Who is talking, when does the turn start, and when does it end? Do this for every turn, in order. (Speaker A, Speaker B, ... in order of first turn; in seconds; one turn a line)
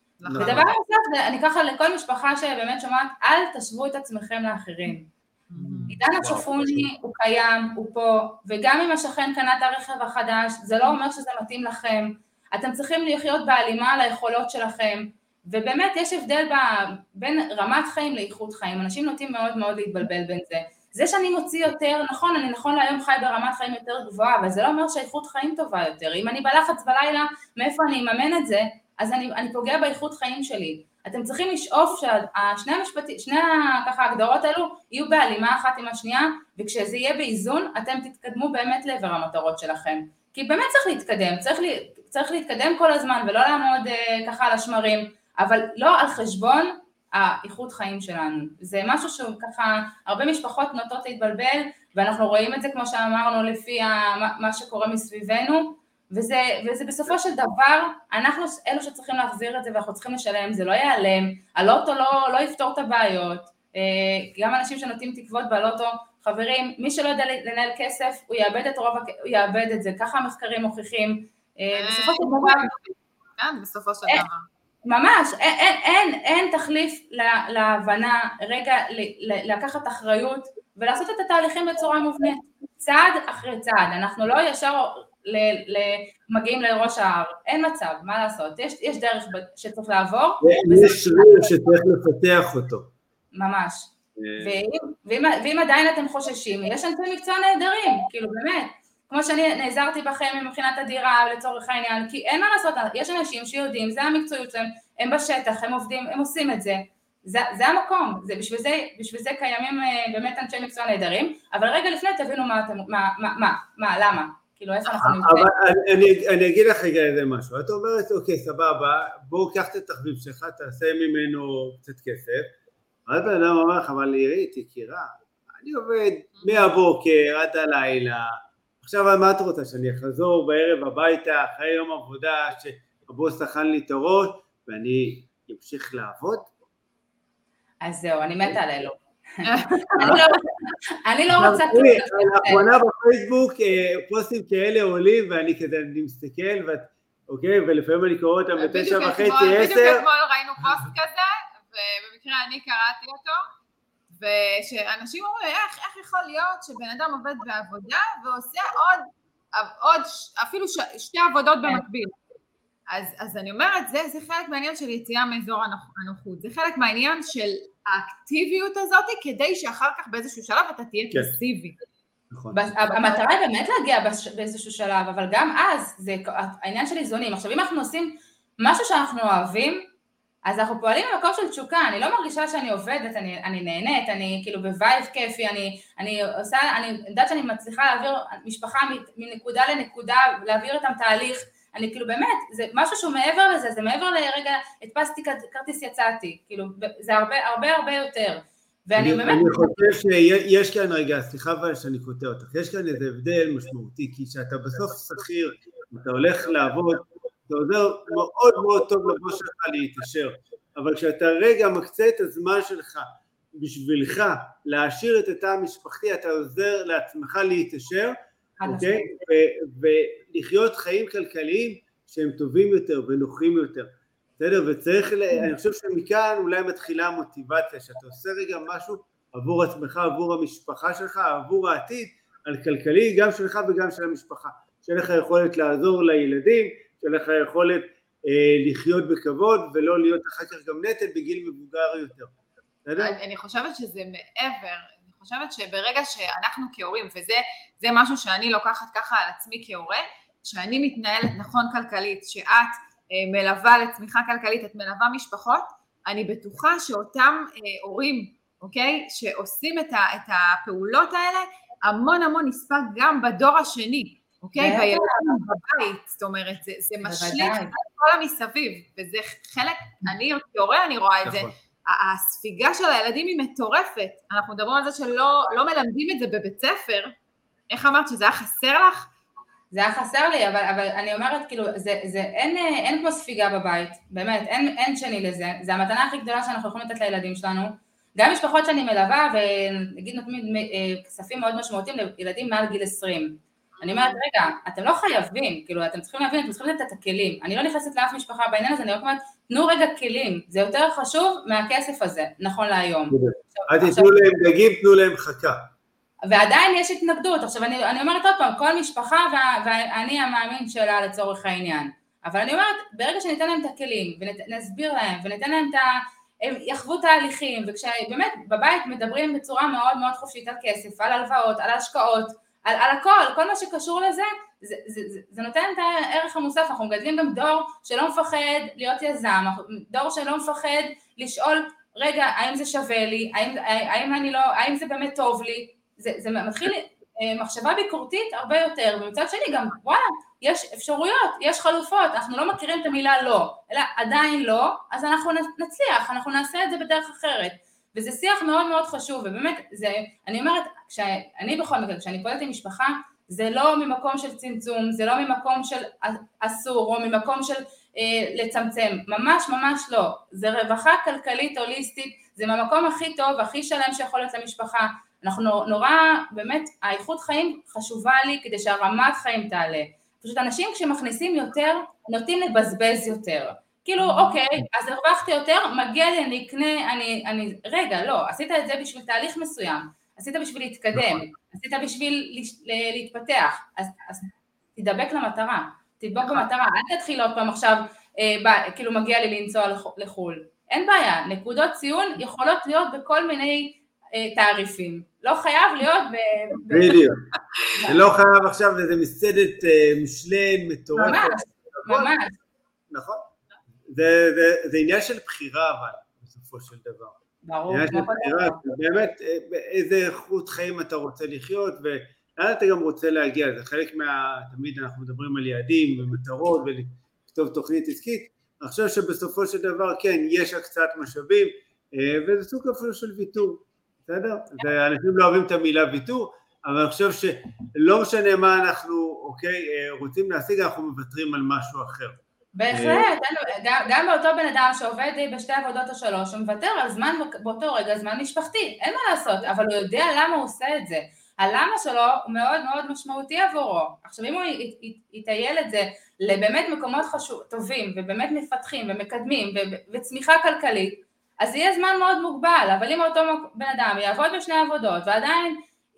Speaker A: 0.2-0.6
Speaker B: 0.3-0.7
Speaker C: 0.4-5.1
Speaker A: 5.5-6.0
Speaker B: 5.5-6.9
Speaker C: 5.9-72.7
Speaker A: 71.7-74.5
Speaker C: 74.8-91.5
Speaker B: 90.4-92.9
Speaker C: 93.3-115.5
Speaker B: 94.2-94.6
Speaker B: 114.9-122.5
Speaker B: 123.1-128.3
Speaker A: 126.4-126.7
Speaker B: 128.8-136.5
Speaker C: 137.8-142.6
Speaker A: 139.4-140.2
Speaker B: 141.3-150.1
Speaker A: 148.6-153.4
Speaker A: 154.1-162.1
Speaker A: 162.9-171.8
Speaker B: 172.3-172.6
Speaker C: 172.5-179.8
Speaker C: 180.4-199.9
Speaker B: 199.0-242.3
Speaker C: 218.6-219.1
Speaker B: 242.8-243.2
Speaker A: 243.0-277.1
Speaker C: 264.6-265.3
Speaker C: 267.0-267.7
Speaker B: 271.2-271.5
Speaker A: 277.7-279.1
Speaker C: 279.7-304.1
Speaker A: 293.8-294.2
Speaker B: 303.1-305.7
Speaker C: 306.3-315.9
Speaker C: 316.4-397.0
Speaker B: 380.9-381.2
Speaker B: 396.7-397.3
Speaker C: 397.7-398.1
Speaker B: 397.8-402.1
Speaker C: 400.9-402.3
Speaker B: 402.9-403.2
Speaker B: 403.9-407.2
Speaker C: 407.4-408.6
Speaker B: 407.7-432.2
Speaker C: 432.5-455.6
Speaker B: 432.7-433.1